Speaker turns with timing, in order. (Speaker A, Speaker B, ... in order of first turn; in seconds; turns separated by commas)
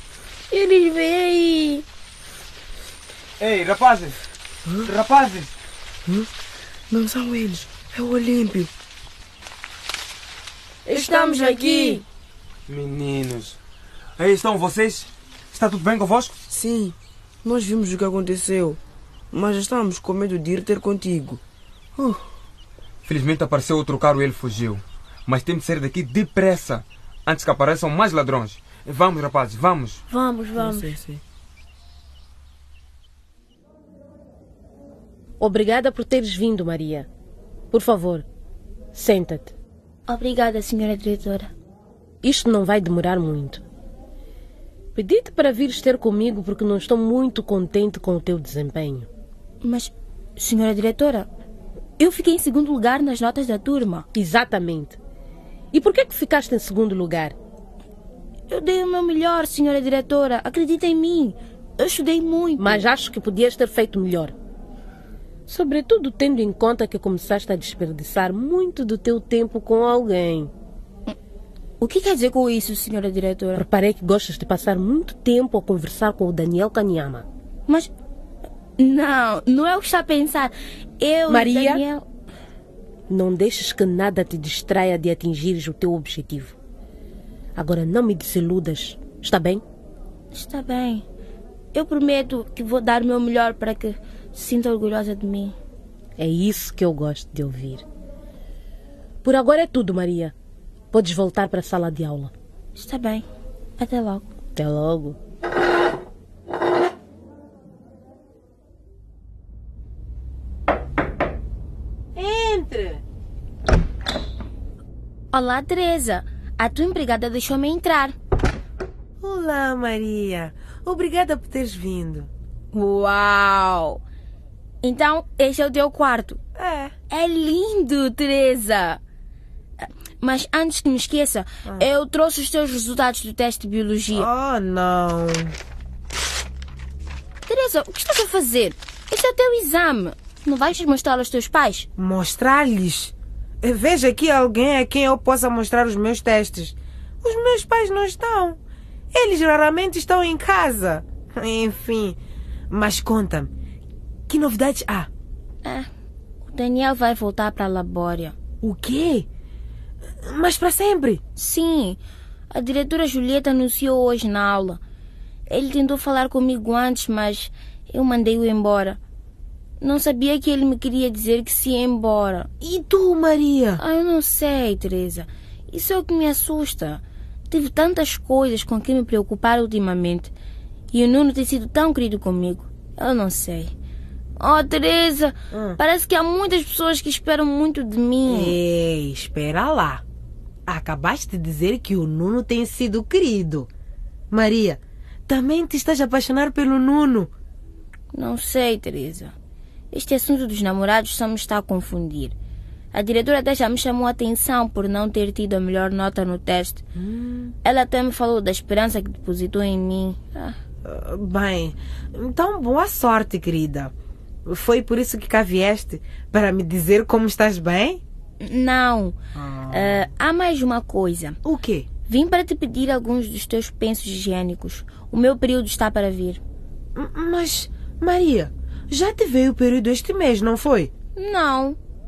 Speaker A: 0.5-1.8, Speaker B: 3.4-4.2, Speaker C: 4.7-4.9, Speaker B: 4.8-5.5, Speaker C: 6.9-8.7, Speaker C: 10.9-12.0, Speaker D: 10.9-11.7, Speaker B: 12.7-13.6, Speaker B: 14.2-16.4, Speaker C: 16.5-18.8, Speaker C: 19.3-21.4, Speaker C: 22.0-22.2, Speaker B: 23.0-30.0, Speaker A: 30.1-30.9, Speaker C: 30.6-31.2, Speaker D: 35.4-37.1, Speaker D: 37.7-38.2, Speaker D: 38.9-39.5, Speaker A: 40.1-41.5, Speaker D: 42.2-43.6, Speaker D: 44.9-49.1, Speaker A: 49.6-51.3, Speaker A: 52.0-54.1, Speaker D: 54.1-55.0, Speaker D: 55.7-57.4, Speaker A: 58.5-62.8, Speaker D: 62.6-64.3, Speaker D: 65.5-70.5, Speaker A: 71.8-73.6, Speaker D: 73.5-77.2, Speaker A: 78.8-82.0, Speaker D: 81.3-81.7, Speaker D: 83.1-86.5, Speaker D: 87.5-89.6, Speaker A: 90.3-91.0, Speaker A: 91.7-95.5, Speaker D: 96.2-97.8, Speaker D: 99.2-100.3, Speaker D: 100.9-102.3, Speaker A: 102.8-103.2, Speaker A: 103.8-104.3, Speaker D: 104.5-105.2, Speaker E: 112.2-113.0, Speaker A: 115.3-118.2, Speaker E: 119.2-122.3, Speaker A: 122.7-124.0, Speaker A: 124.8-126.4, Speaker E: 126.5-126.9, Speaker A: 127.1-129.0, Speaker A: 130.2-134.3, Speaker E: 134.1-135.5, Speaker A: 137.5-141.9, Speaker E: 142.0-148.6, Speaker E: 149.1-152.2, Speaker E: 152.7-153.5, Speaker E: 154.3-155.1, Speaker A: 155.6-155.9, Speaker A: 156.4-158.3, Speaker E: 158.6-159.3, Speaker E: 160.2-161.2, Speaker A: 161.3-164.8, Speaker A: 165.5-169.0, Speaker A: 169.8-172.5, Speaker E: 172.6-173.8, Speaker A: 173.8-180.3, Speaker A: 180.9-183.7, Speaker A: 184.4-188.5, Speaker E: 188.2-190.0, Speaker E: 190.7-193.7, Speaker E: 194.3-197.3, Speaker A: 198.1-199.3, Speaker A: 199.9-202.3, Speaker A: 202.9-206.8, Speaker E: 206.9-207.5, Speaker A: 207.6-210.6, Speaker E: 210.8-213.9, Speaker E: 214.4-218.0, Speaker A: 218.4-219.2, Speaker E: 219.3-220.1, Speaker A: 219.7-221.4, Speaker E: 221.4-221.9, Speaker A: 222.0-226.4, Speaker E: 226.9-230.9, Speaker A: 231.2-231.8